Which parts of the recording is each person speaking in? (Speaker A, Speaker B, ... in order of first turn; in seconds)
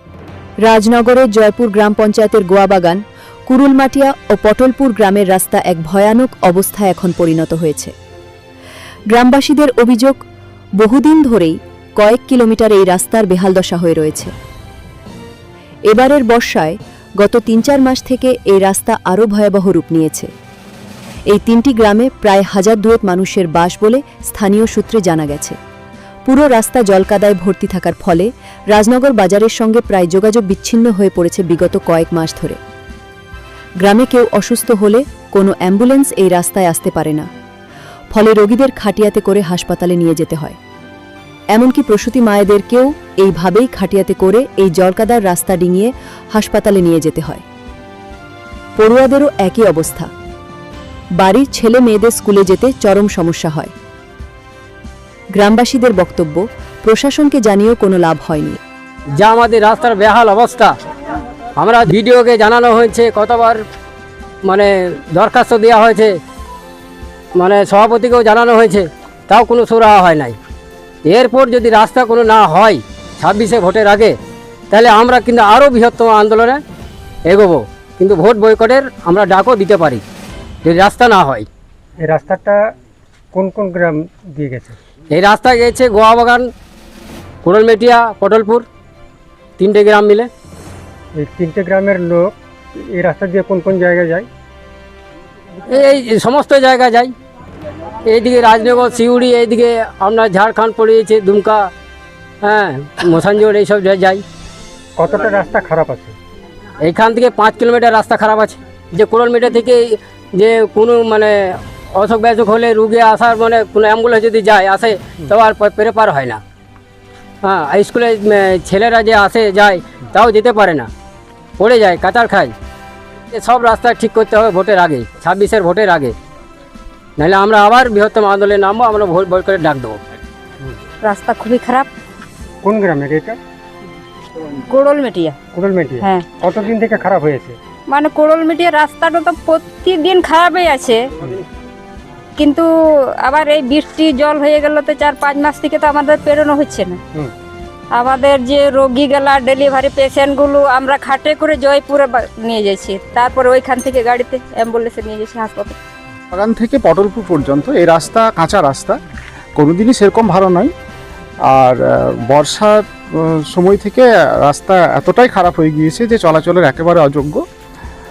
Speaker A: 0.7-7.9, 9.1-10.2, 10.8-14.3, 15.9-20.3, 21.3-25.6, 26.3-32.6, 33.8-37.3, 38.1-40.6, 41.5-47.4, 48.8-50.1, 51.2-53.7, 55.4-58.6
Speaker B: 59.1-60.8, 61.6-63.6, 64.4-66.2, 67.3-70.4, 71.0-74.2, 74.7-76.6, 77.3-80.0, 80.6-81.5, 85.1-86.5, 87.4-88.7, 89.6-90.3, 95.7-97.1, 98.1-101.7, 102.4-104.2, 106.8-116.4, 117.4-120.9, 121.6-122.5, 123.3-126.2, 127.2-130.0
Speaker C: 82.0-82.6, 83.3-84.8, 91.2-92.3, 92.9-94.3, 105.0-106.1, 132.6-133.4, 135.5-137.6
Speaker D: 131.0-131.9, 134.7-135.4, 136.0-136.3, 137.9-141.1, 142.4-142.7, 143.2-147.0, 147.9-155.8
Speaker E: 156.3-158.9, 159.6-160.7, 161.5-167.4